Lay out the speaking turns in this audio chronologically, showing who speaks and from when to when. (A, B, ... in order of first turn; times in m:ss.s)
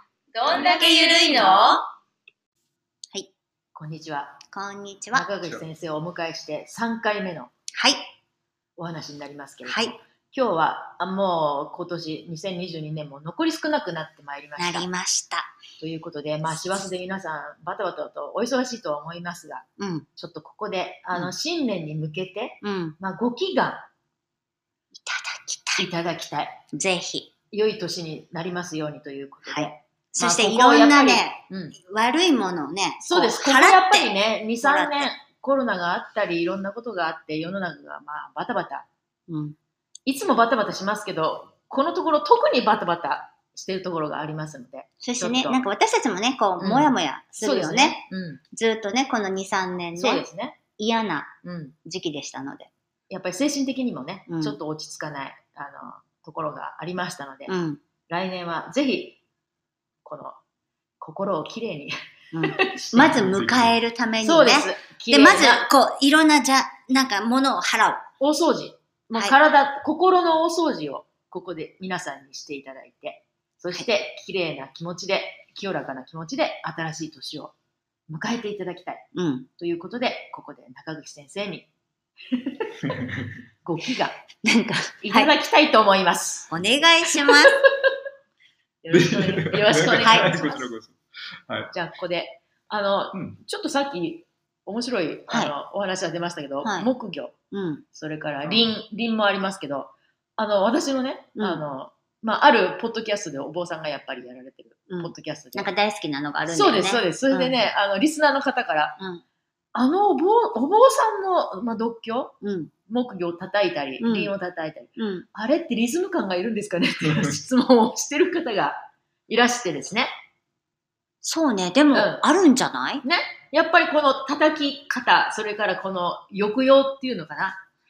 0:00.3-0:01.9 A
0:00.4-0:01.8 B
0:03.7-0:04.4 A
0:04.5-0:05.3 B
0:05.1-0:07.5 A
0:07.7-0:08.0 B
0:08.8-0:14.9 A
0:09.6-0:10.0 B
0:14.6-0:15.6 B
0:15.8-0:23.9 A
0:19.8-0:20.1 B
0:22.6-0:23.0 B
0:25.0-0:25.8 B
0:25.8-0:26.6 A
0:26.7-0:27.3 B
0:27.5-0:31.8 A
0:29.4-0:35.1 B
0:33.0-0:38.9 A
0:39.3-0:39.6 B
0:40.0-0:45.6 A
0:45.0-0:50.2 B
0:46.6-0:48.4 A
0:49.9-0:50.6 A
0:50.8-0:52.7 B
0:51.4-0:51.8 A
0:53.1-0:57.5 A
0:54.3-0:54.6 B
0:57.5-0:57.8 B
0:58.1-0:59.2 A
1:00.0-1:00.4 A
1:01.0-1:03.2 A
1:02.3-1:08.0 B
1:02.9-1:03.8 C
1:04.2-1:05.7 A
1:08.2-1:17.5 A
1:09.1-1:09.4 B
1:18.1-1:19.0 A
1:19.1-1:19.5 B
1:19.6-1:21.7 A
1:22.3-1:22.9 A
1:22.8-1:23.4 C
1:23.6-1:24.2 A
1:24.4-1:25.3 B
1:25.0-1:26.5 A
1:26.5-1:27.6 B
1:27.1-1:27.9 A
1:28.8-1:30.7 A
1:28.9-1:31.0 C
1:30.0-1:30.3 B
1:31.5-1:31.7 C
1:31.7-1:37.3 A
1:33.1-1:33.4 C
1:35.3-1:35.5 B
1:36.6-1:36.9 B
1:37.5-1:37.8 B
1:37.9-1:45.7 A
1:38.4-1:38.7 C
1:41.4-1:41.6 B
1:44.9-1:47.6 B
1:46.5-1:49.0 A
1:49.7-1:52.3 A
1:52.4-1:52.7 B
1:52.9-2:00.1 A
1:54.0-1:54.3 B
1:55.0-1:55.2 B
1:57.0-1:57.4 C
2:01.2-2:03.0 B
2:01.9-2:02.2 A
2:03.0-2:07.6 A